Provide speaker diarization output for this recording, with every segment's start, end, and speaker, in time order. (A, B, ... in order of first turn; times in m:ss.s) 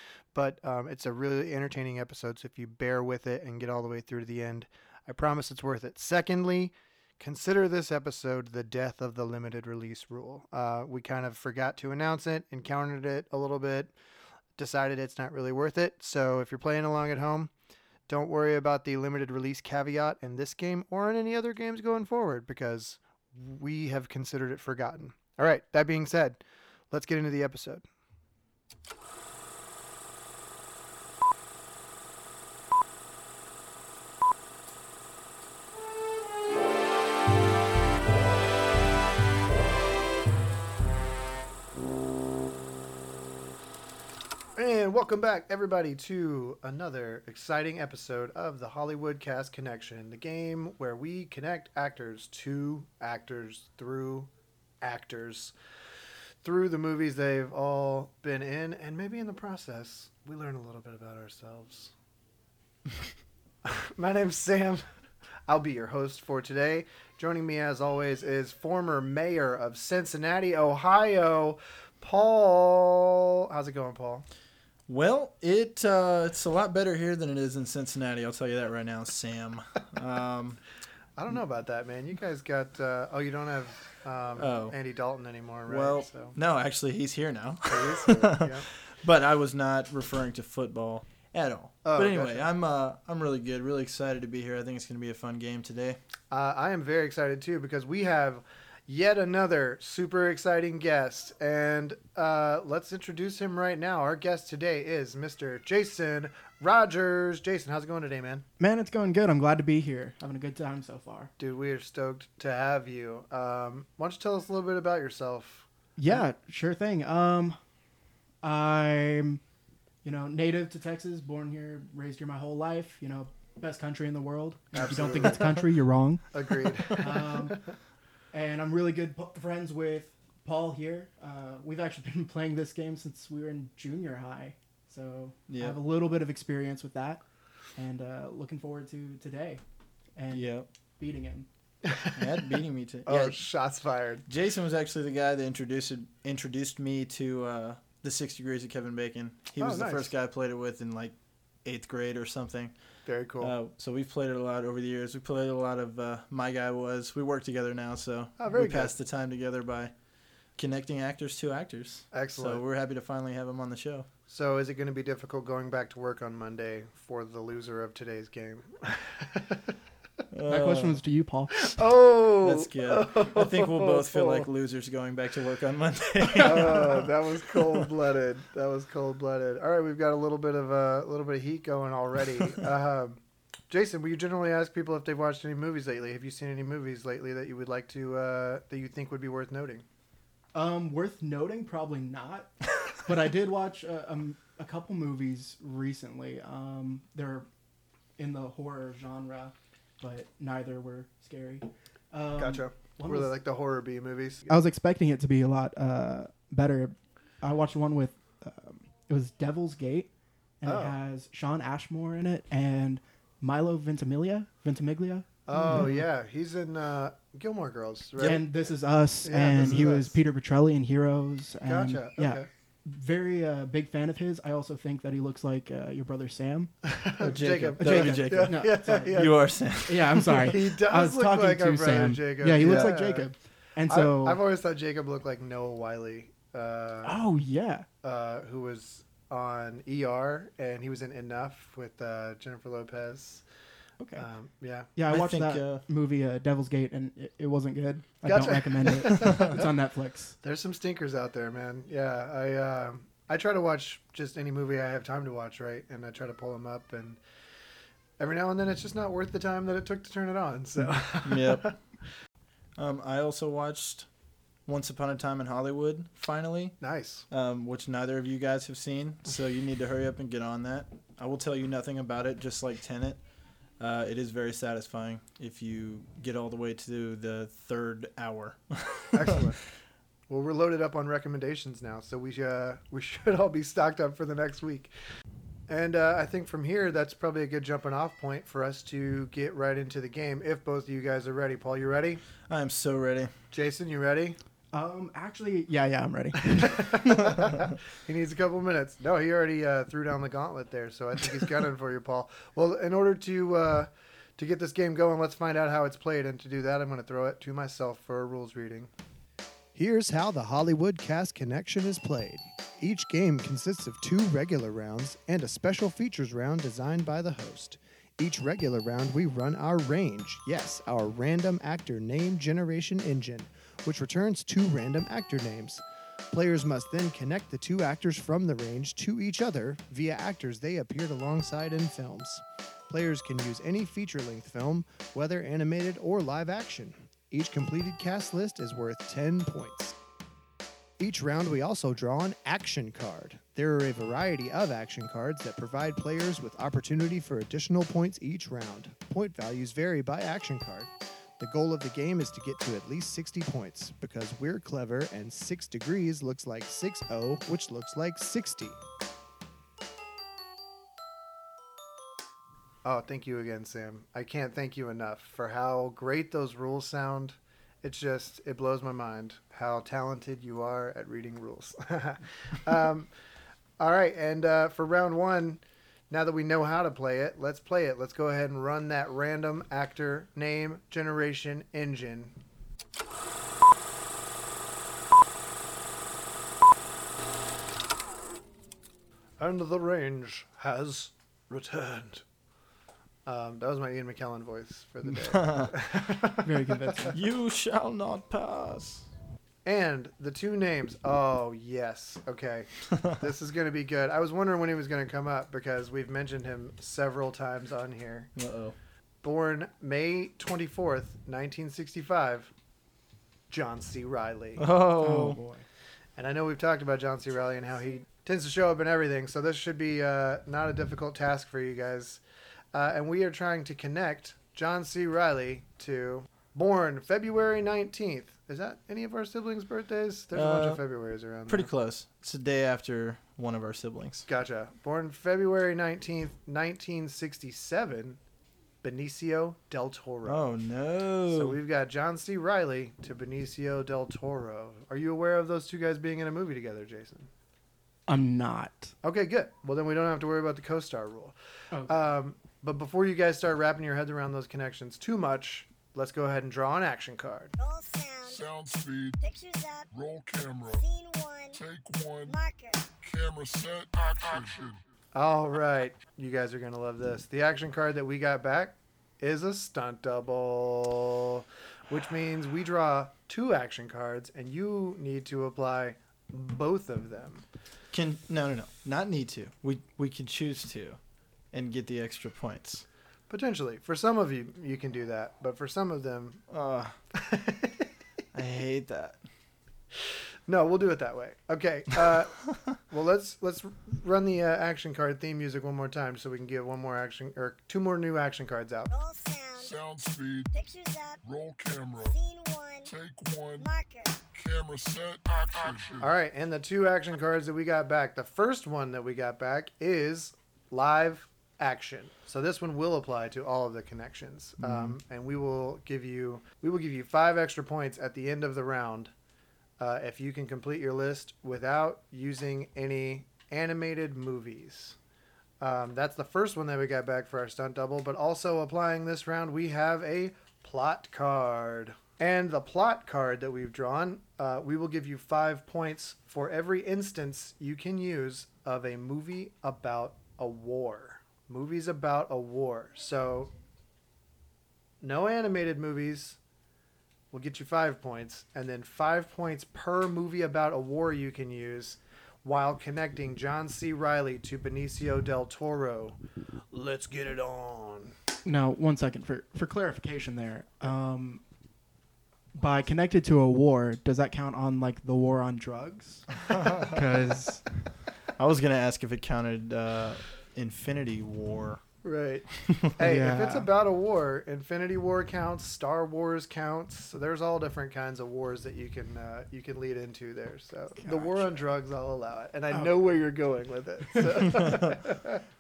0:00.3-0:13.9 A
0:14.6-0:17.5 A
0:18.1-0:26.4 A
0:26.9-0:27.8 A
0:44.6-0:54.3 A
0:54.8-0:55.5 A
0:56.4-1:01.9 A
1:03.6-1:04.8 A
1:05.5-1:14.3 A
1:14.9-1:20.6 B
1:21.2-1:26.4 A
1:24.4-1:24.8 B
1:25.7-1:36.0 B
1:27.7-1:28.7 A
1:31.8-1:32.5 A
1:36.3-1:48.5 A
1:48.6-1:51.3 C
1:51.4-1:56.2 A
1:56.0-1:57.6 C
1:58.4-1:59.4 C
2:00.0-2:07.7 C
2:04.7-2:05.7 A
2:06.3-2:07.6 A
2:08.3-2:17.2 C
2:15.5-2:15.8 B
2:17.8-2:19.6 C
2:20.2-2:21.5 C
2:20.3-2:20.7 B
2:21.8-2:22.2 A
2:22.1-2:23.4 B
2:23.1-2:24.2 A
2:24.3-2:31.1 B
2:29.6-2:30.1 A
2:31.6-2:32.7 B
2:33.1-2:33.5 A
2:33.4-2:39.9 B
2:38.4-2:38.9 A
2:40.6-2:44.1 B
2:42.1-2:42.6 A
2:44.3-2:49.7 A
2:50.3-2:51.0 B
2:50.5-2:51.6 C
2:51.6-2:54.5 A
2:52.4-2:57.9 B
2:56.4-3:03.2 A
3:03.7-3:09.8 A
3:10.5-3:17.5 C
3:18.2-3:23.3 C
3:22.4-3:24.6 A
3:24.5-3:30.1 C
3:30.6-3:36.1 C
3:30.6-3:31.0 A
3:35.5-3:38.5 A
3:38.2-3:46.7 C
3:39.2-3:40.2 A
3:41.6-3:42.5 A
3:46.8-3:49.4 A
3:47.2-3:50.5 B
3:47.8-3:49.3 C
3:49.8-3:54.4 C
3:50.4-3:53.3 A
3:52.6-3:52.9 B
3:53.8-3:57.2 A
3:57.0-3:57.9 C
3:58.0-4:03.4 A
4:04.0-4:04.3 C
4:04.2-4:04.9 A
4:05.0-4:10.4 C
4:05.1-4:05.8 B
4:08.2-4:09.7 A
4:10.4-4:17.2 A
4:18.2-4:21.7 A
4:21.2-4:21.7 B
4:22.8-4:24.1 B
4:24.7-4:26.8 B
4:26.8-4:27.3 A
4:27.3-4:33.2 B
4:33.8-4:39.4 B
4:39.1-4:39.6 A
4:40.3-4:44.9 A
4:45.7-4:52.2 A
4:52.5-4:53.3 B
4:53.5-4:54.4 A
4:54.7-4:57.0 C
4:56.5-5:08.9 A
5:09.8-5:40.0 A
5:41.0-5:58.8 A
6:02.8-6:13.1 A
6:13.8-6:22.4 A
6:29.4-6:32.2 A
6:33.3-6:37.1 A
6:35.1-6:35.8 B
6:36.4-6:37.2 C
6:37.1-6:39.1 B
6:39.6-6:48.3 A
6:48.4-6:48.8 B
6:49.2-6:52.5 A
6:53.5-6:54.6 A
6:54.6-6:55.4 B
6:55.0-6:55.6 C
6:56.2-7:02.2 A
7:02.7-7:11.7 A
7:10.3-7:10.8 B
7:11.5-7:14.3 B
7:14.3-7:18.2 A
7:18.8-7:20.5 A
7:20.3-7:21.6 B
7:21.3-7:27.3 A
7:28.1-7:28.9 C
7:29.0-7:37.6 A
7:31.7-7:32.0 C
7:37.6-7:38.4 D
7:38.2-7:39.2 E
7:39.2-7:39.9 D
7:39.9-7:40.8 E
7:40.7-7:41.6 D
7:41.5-7:42.4 E
7:42.3-7:42.9 D
7:43.0-7:44.8 E
7:45.1-7:57.4 A
7:57.9-8:01.0 B
8:01.5-8:02.8 B
8:03.3-8:06.4 A
8:06.5-8:07.0 B
8:07.1-8:07.9 A
8:08.3-8:09.2 B
8:10.5-8:18.9 A
8:18.9-8:19.7 D
8:19.6-8:20.5 E
8:20.5-8:21.2 D
8:21.2-8:22.2 E
8:22.0-8:22.9 D
8:22.8-8:23.7 E
8:23.6-8:24.2 D
8:24.3-8:26.1 E
8:26.0-8:39.1 A
8:39.8-8:45.0 A
8:45.6-9:03.5 A
9:05.0-9:06.4 A
9:07.3-9:16.2 A
9:16.7-9:18.2 A
9:18.4-9:21.4 C
9:22.5-9:27.9 C
9:26.5-9:26.9 B
9:28.4-9:31.8 B
9:32.0-9:45.4 A
9:32.7-9:33.0 B
9:33.0-9:33.7 C
9:41.0-9:41.7 C